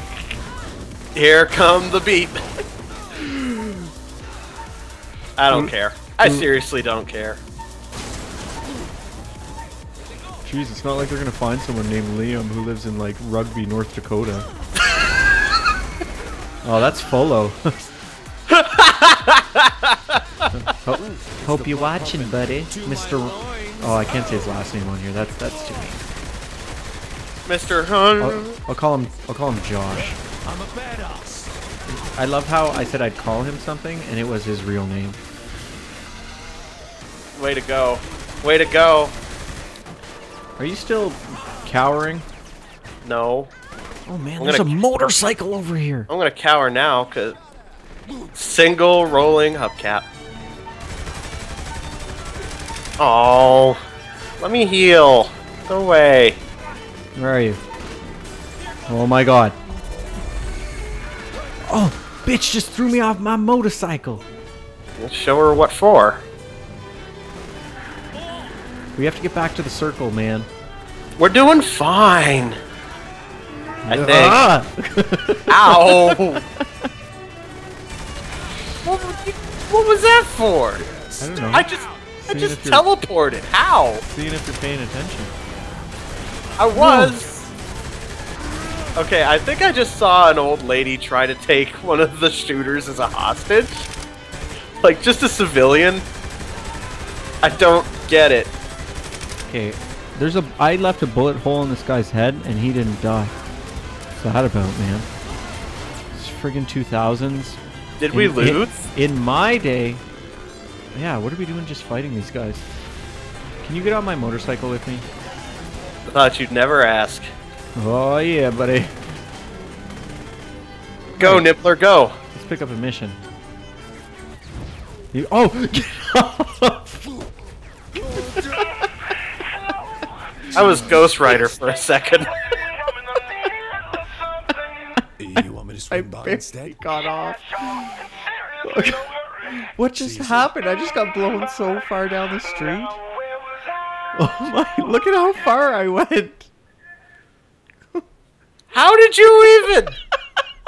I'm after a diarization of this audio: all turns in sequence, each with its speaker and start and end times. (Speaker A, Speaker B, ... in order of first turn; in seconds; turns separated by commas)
Speaker A: 1.1-2.4, Speaker B: 3.1-3.9, Speaker A: 5.4-7.4, Speaker B: 5.5-6.5, Speaker B: 10.4-14.5, Speaker B: 16.6-17.7, Speaker A: 18.5-20.5, Speaker B: 20.5-26.0, Speaker C: 20.9-23.8, Speaker A: 27.4-28.6, Speaker B: 28.2-30.2, Speaker C: 30.3-31.5, Speaker B: 31.9-35.2, Speaker A: 37.4-39.1, Speaker B: 40.6-42.2, Speaker A: 43.0-43.5, Speaker B: 44.1-46.1, Speaker A: 44.4-44.9, Speaker A: 46.1-47.4, Speaker A: 48.3-50.0, Speaker A: 53.0-53.8, Speaker A: 54.4-56.4, Speaker B: 57.1-57.6, Speaker B: 58.9-59.5, Speaker B: 61.7-64.2, Speaker A: 65.0-66.2, Speaker B: 69.0-70.5, Speaker A: 71.2-72.6, Speaker B: 73.8-76.6, Speaker A: 73.9-74.5, Speaker A: 75.5-76.4, Speaker A: 78.8-80.8, Speaker C: 80.9-81.3, Speaker B: 81.2-81.7, Speaker A: 81.5-84.0, Speaker B: 82.2-82.8, Speaker B: 84.0-85.3, Speaker A: 86.6-87.3, Speaker B: 86.7-87.2, Speaker A: 89.0-93.9, Speaker A: 94.8-96.0, Speaker A: 97.4-98.5, Speaker B: 99.5-103.3, Speaker B: 104.2-105.1, Speaker B: 106.1-107.6, Speaker A: 108.0-108.7, Speaker B: 108.1-110.0, Speaker B: 110.9-112.7, Speaker B: 113.6-115.0, Speaker A: 116.1-117.3, Speaker B: 117.8-118.9, Speaker A: 121.2-122.2, Speaker B: 121.2-121.5, Speaker B: 122.3-123.2, Speaker B: 125.1-127.0, Speaker B: 128.2-128.9, Speaker B: 130.5-131.1, Speaker A: 130.5-132.3, Speaker C: 135.2-136.8, Speaker B: 135.9-138.0, Speaker B: 138.6-143.0, Speaker C: 140.0-140.5, Speaker B: 144.1-146.5, Speaker A: 148.7-149.9